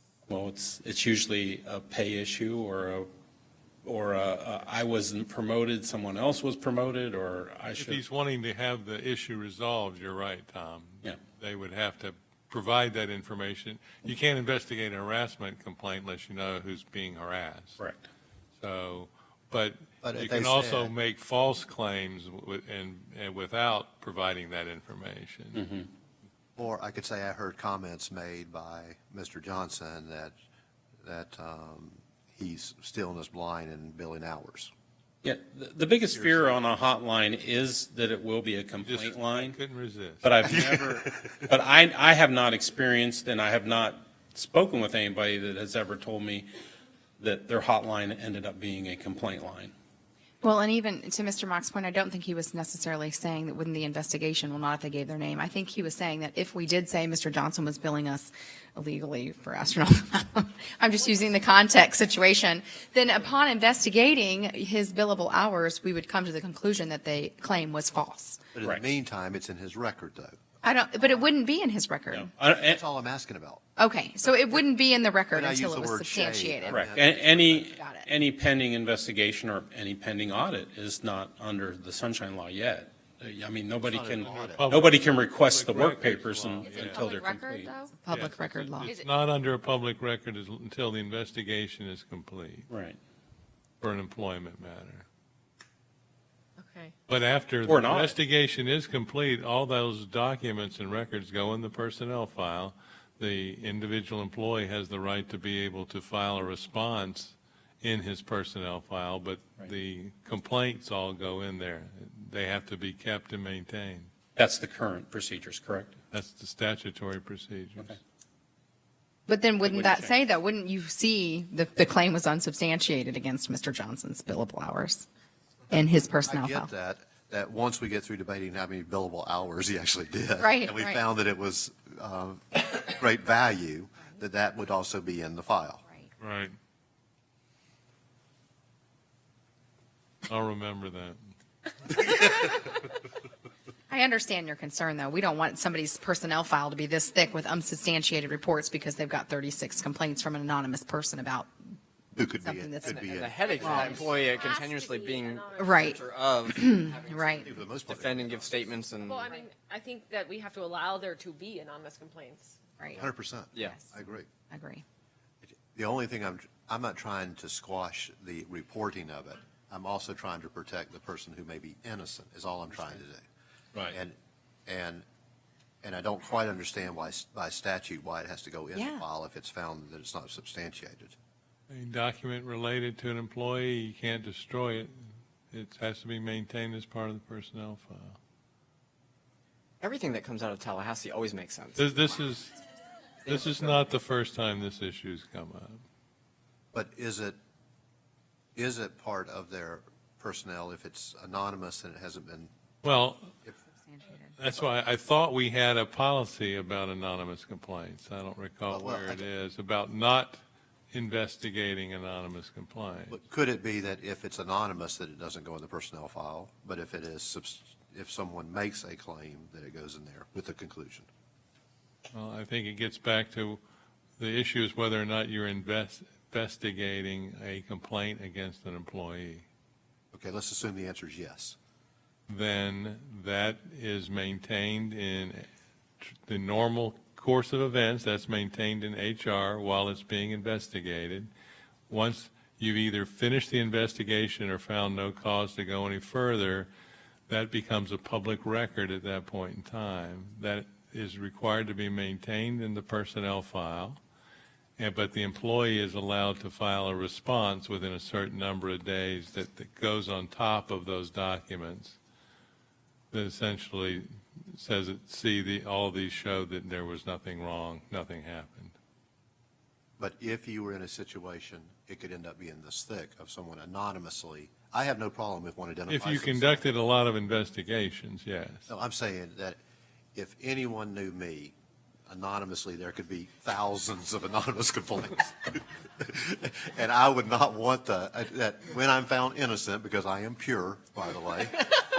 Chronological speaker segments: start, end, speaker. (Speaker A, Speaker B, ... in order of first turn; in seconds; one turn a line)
Speaker A: 0.3-3.1
Speaker A: 3.8-8.0
Speaker B: 7.8-17.8
Speaker A: 17.8-18.0
Speaker B: 18.6-25.7
Speaker C: 20.0-20.9
Speaker A: 25.6-25.8
Speaker C: 26.6-30.4
Speaker C: 31.0-34.7
Speaker A: 35.2-39.6
Speaker C: 36.1-36.6
Speaker B: 38.8-40.3
Speaker A: 40.2-46.5
Speaker C: 40.4-41.5
Speaker A: 47.2-49.7
Speaker D: 50.4-68.4
Speaker E: 61.0-61.9
Speaker C: 68.5-70.4
Speaker D: 70.6-72.3
Speaker A: 72.1-72.8
Speaker C: 72.6-73.6
Speaker D: 73.8-77.0
Speaker C: 75.3-77.7
Speaker A: 76.7-87.7
Speaker D: 77.7-78.1
Speaker C: 83.8-84.8
Speaker B: 84.2-87.0
Speaker E: 86.7-88.1
Speaker D: 88.0-88.9
Speaker B: 88.1-92.7
Speaker A: 92.7-93.0
Speaker B: 93.8-95.1
Speaker E: 96.6-97.0
Speaker B: 97.1-114.1
Speaker A: 97.7-98.2
Speaker A: 114.4-116.0
Speaker B: 116.1-118.0
Speaker D: 119.3-125.1
Speaker A: 119.6-120.3
Speaker D: 125.7-126.7
Speaker C: 126.2-135.8
Speaker D: 130.4-131.0
Speaker B: 136.2-136.5
Speaker B: 140.3-141.2
Speaker D: 143.9-151.5
Speaker C: 152.2-153.9
Speaker D: 152.4-153.0
Speaker F: 152.9-159.2
Speaker E: 153.5-156.1
Speaker D: 153.6-154.0
Speaker D: 155.6-157.5
Speaker C: 157.3-158.8
Speaker E: 159.1-162.6
Speaker C: 162.9-164.3
Speaker D: 164.5-164.8
Speaker C: 165.4-173.2
Speaker C: 173.9-175.1
Speaker C: 175.8-181.2
Speaker D: 178.8-179.0
Speaker B: 181.7-188.2
Speaker F: 189.8-192.2
Speaker B: 191.8-192.6
Speaker F: 193.2-193.8
Speaker B: 193.3-195.8
Speaker C: 196.7-197.4
Speaker C: 198.6-202.5
Speaker B: 202.8-203.3
Speaker D: 203.7-204.4
Speaker B: 204.4-210.4
Speaker C: 208.7-209.3
Speaker B: 210.9-213.2
Speaker C: 213.1-221.1
Speaker B: 222.1-223.6
Speaker B: 224.2-229.4
Speaker C: 230.1-231.6
Speaker B: 232.3-235.5
Speaker B: 236.1-241.3
Speaker B: 241.9-246.7
Speaker B: 247.3-254.0
Speaker B: 254.8-262.0
Speaker B: 263.1-268.8
Speaker C: 270.0-276.6
Speaker B: 275.9-278.7
Speaker C: 278.7-279.6
Speaker C: 280.1-281.6
Speaker C: 282.1-291.8